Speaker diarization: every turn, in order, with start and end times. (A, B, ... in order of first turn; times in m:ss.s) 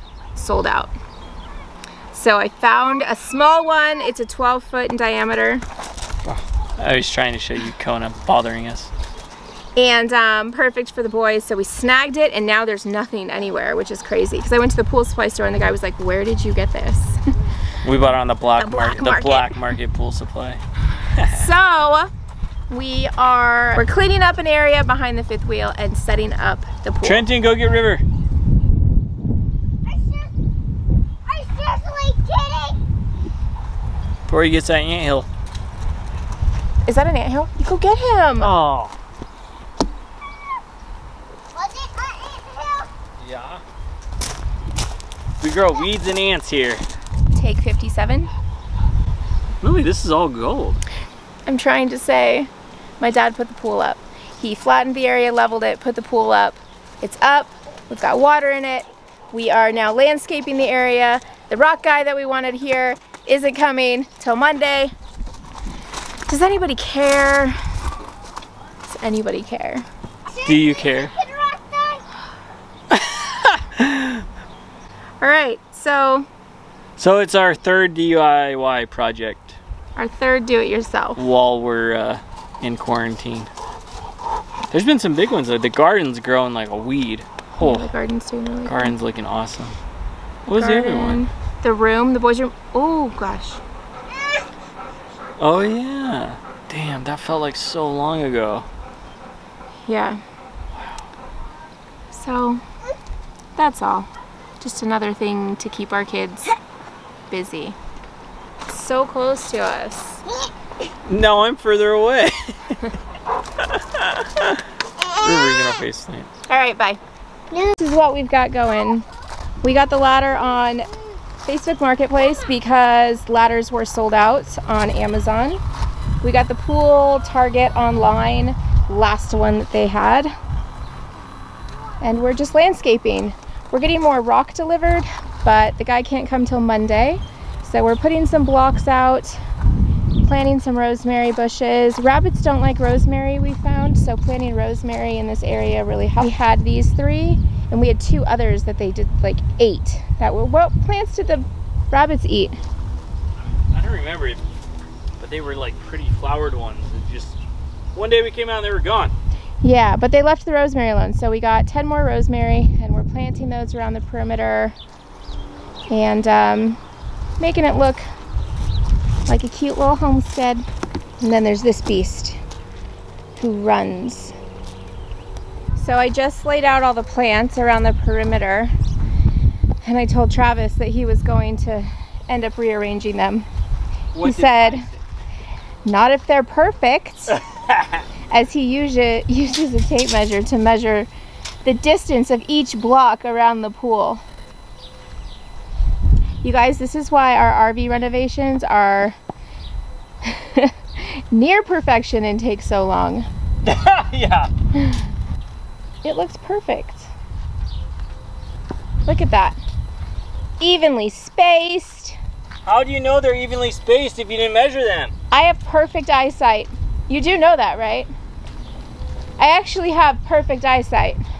0:00.3-0:00.9 A
0:02.1-0:05.6 A
0:06.2-0:08.9 B
0:09.8-0:17.2 A
0:17.8-0:21.5 B
0:18.6-0:19.6 A
0:21.2-0:22.1 A
0:22.7-0:27.3 A
0:27.0-0:28.0 B
0:29.8-0:30.3 C
0:31.2-0:32.8 C
0:34.3-0:35.3 B
0:36.9-0:38.5 A
0:38.4-0:38.9 B
0:41.5-0:42.9 C
0:43.2-0:43.6 B
0:45.4-0:46.8 B
0:47.3-0:48.3 A
0:49.6-0:50.8 B
0:51.5-1:04.9 A
1:06.3-1:07.6 A
1:08.8-1:09.8 A
1:10.3-1:12.0 C
1:10.4-1:11.2 B
1:12.9-1:14.2 B
1:15.2-1:16.3 A
1:17.0-1:19.6 B
1:20.0-1:21.2 A
1:21.2-1:23.5 B
1:24.7-1:27.9 B
1:27.6-1:28.9 A
1:28.6-1:29.8 B
1:30.4-1:31.2 B
1:30.5-1:33.6 A
1:35.4-1:38.7 B
1:39.8-1:40.2 A
1:42.1-1:42.6 A
1:43.6-1:44.1 A
1:44.6-1:46.5 A
1:47.3-1:47.8 A
1:48.7-1:50.2 A
1:51.0-1:53.0 B
1:53.6-1:54.6 B
1:55.0-1:55.6 C
1:55.2-1:56.3 B
1:56.5-1:57.0 A
1:57.5-1:57.8 C
1:57.8-1:59.0 A
1:59.6-2:00.9 A
2:01.4-2:05.6 A
2:06.2-2:10.3 A
2:12.0-2:19.4 A
2:20.2-2:32.6 A
2:33.7-2:34.4 B
2:35.2-2:37.4 B
2:37.9-2:39.1 B
2:39.6-2:44.8 A
2:45.9-2:46.8 A
2:47.4-2:48.0 A
2:49.3-2:50.6 A
2:51.2-2:52.4 A
2:53.4-2:54.4 A
2:55.8-2:58.7 A
2:59.8-3:03.5 A
3:04.1-3:05.0 B
3:04.2-3:04.9 A
3:05.8-3:07.4 A
3:07.4-3:08.0 B
3:08.3-3:11.1 A
3:11.6-3:14.2 A
3:16.4-3:19.2 A
3:20.2-3:23.3 A
3:23.6-3:24.5 B
3:24.8-3:25.0 A
3:26.0-3:27.1 A
3:29.0-3:29.6 A
3:30.6-3:32.2 A
3:32.6-3:35.1 B
3:35.3-3:38.1 A
3:39.4-3:41.2 A